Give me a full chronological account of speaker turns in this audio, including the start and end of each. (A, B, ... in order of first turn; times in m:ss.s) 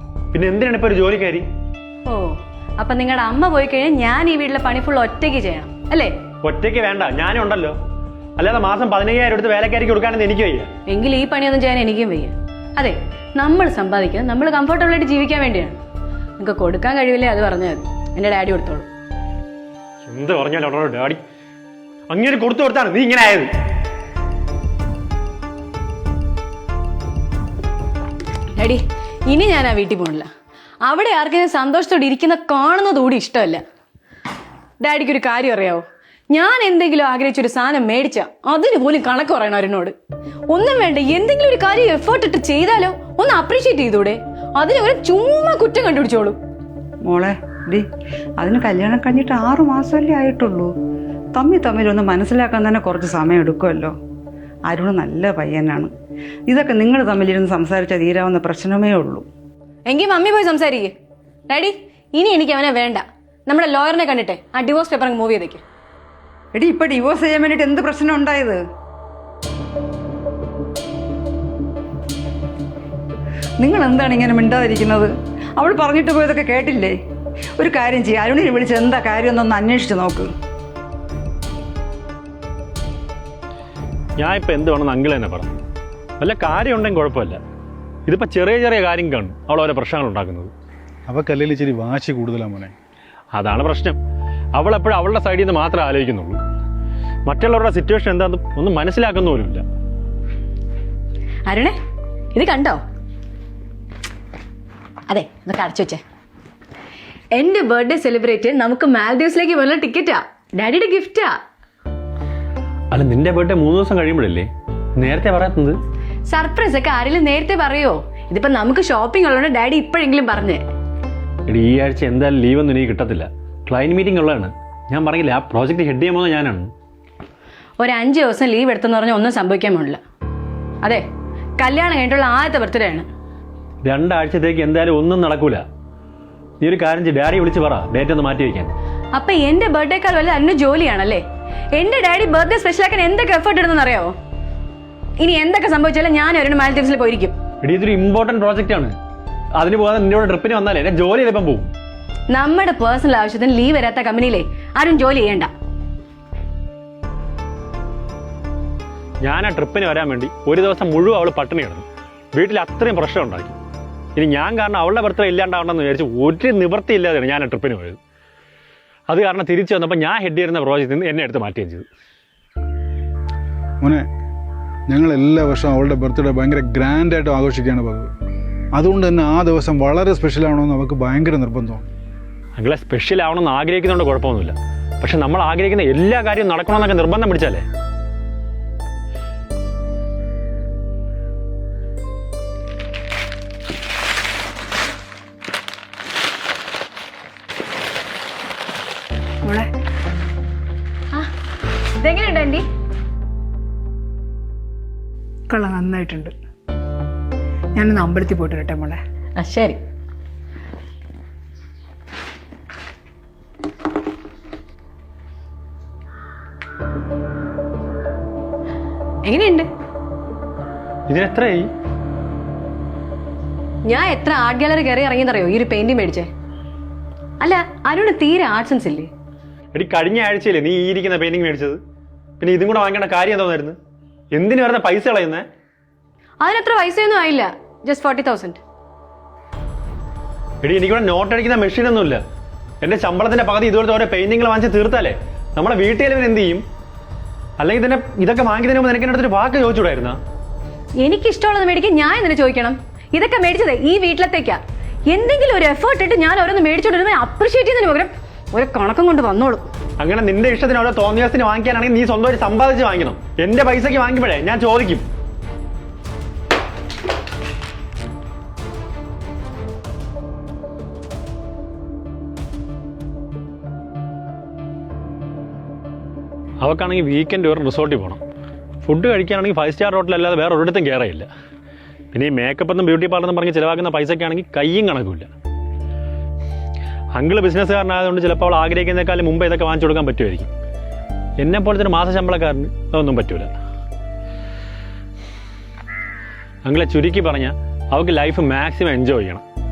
0:00.3-0:01.4 A
0:02.1-0:06.1 B
0:06.4-0:07.8 A
0:08.4-0:10.7 A
0:10.9-0:15.8 B
0:16.4-0:18.9 B
0:20.1-0:21.2 A
0:22.1-0:23.5 A
0:28.5-0:30.3 B
0:30.8-0:33.6 B
0:34.8-0:39.9 B
0:40.5-0:46.4 B
0:47.0-0:47.8 C
0:48.4-0:50.7 C
0:51.3-0:53.9 C
0:54.7-0:55.9 C
0:56.5-0:59.2 C
0:59.9-1:00.9 B
1:01.5-1:05.6 B
1:06.5-1:08.6 C
1:13.6-1:16.9 C
1:17.6-1:20.3 C
1:24.2-1:25.5 A
1:26.2-1:27.4 A
1:28.1-1:30.5 A
1:31.1-1:32.7 D
1:33.3-1:34.0 A
1:34.5-1:36.4 A
1:37.2-1:39.6 A
1:41.5-1:41.8 B
1:42.3-1:42.8 B
1:45.1-1:46.0 B
1:47.3-1:51.4 B
1:52.9-1:55.8 A
1:56.3-2:00.6 B
2:01.5-2:06.7 A
2:07.8-2:10.0 B
2:11.6-2:13.0 B
2:13.8-2:15.6 A
2:16.6-2:18.7 A
2:19.1-2:21.2 B
2:21.7-2:24.1 B
2:25.2-2:27.4 B
2:27.6-2:28.9 A
2:29.6-2:31.7 A
2:32.3-2:35.5 B
2:39.2-2:43.6 A
2:44.2-2:48.0 A
2:49.1-2:51.8 A
2:54.9-2:58.1 D
2:58.7-3:01.9 D
3:02.6-3:07.6 A
3:19.4-3:19.7 E
3:22.0-3:22.6 B
3:25.5-3:26.3 E
3:27.7-3:29.0 E
3:29.4-3:29.8 B
3:39.2-3:39.7 B
3:41.1-3:41.7 A
3:43.8-3:46.3 B
3:47.4-3:49.1 B
3:49.7-3:51.8 A
3:52.4-3:53.8 A
3:54.3-3:55.4 A
3:56.4-3:58.6 B
4:00.6-4:02.2 A
4:02.8-4:06.6 A
4:07.6-4:10.2 A
4:11.0-4:19.6 B
4:20.0-4:25.0 A
4:36.6-4:38.2 A
4:38.8-4:41.3 A
4:42.1-4:45.3 A
4:47.1-4:50.5 A
4:51.4-4:53.5 A
4:56.6-4:59.4 A